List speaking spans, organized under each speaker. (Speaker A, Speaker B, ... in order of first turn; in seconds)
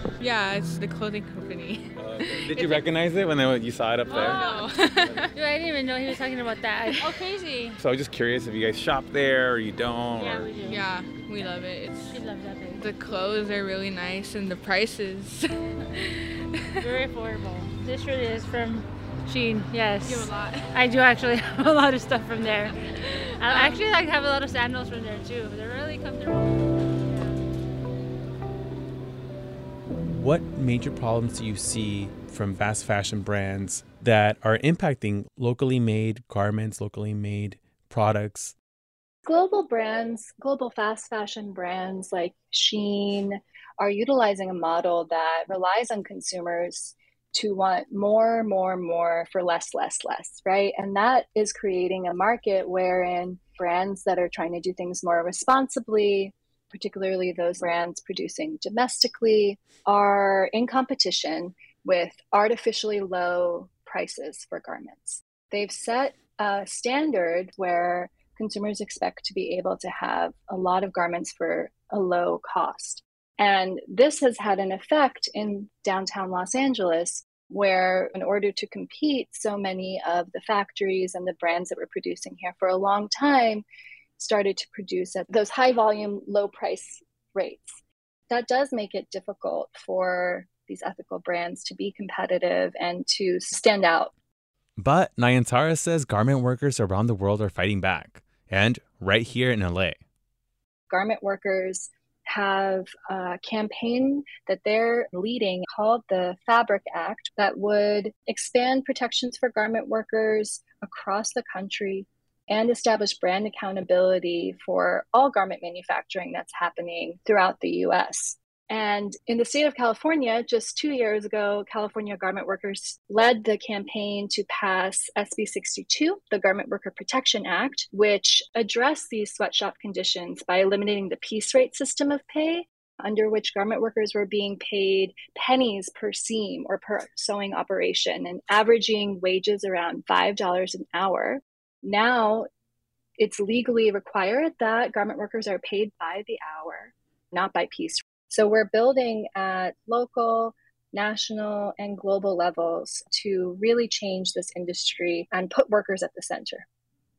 Speaker A: 0.2-2.9, 4.1-5.3, 6.9-7.4, 10.6-12.2, 12.8-16.2, 20.0-20.8, 23.5-23.8
Speaker B: 2.0-4.4, 7.8-10.5
Speaker C: 4.1-4.7, 5.3-7.8, 10.2-10.9, 12.1-12.9, 16.8-22.8, 23.4-27.4
Speaker D: 29.9-38.5, 94.8-100.0
Speaker E: 39.2-83.6, 84.2-94.1, 100.9-142.5, 143.2-156.7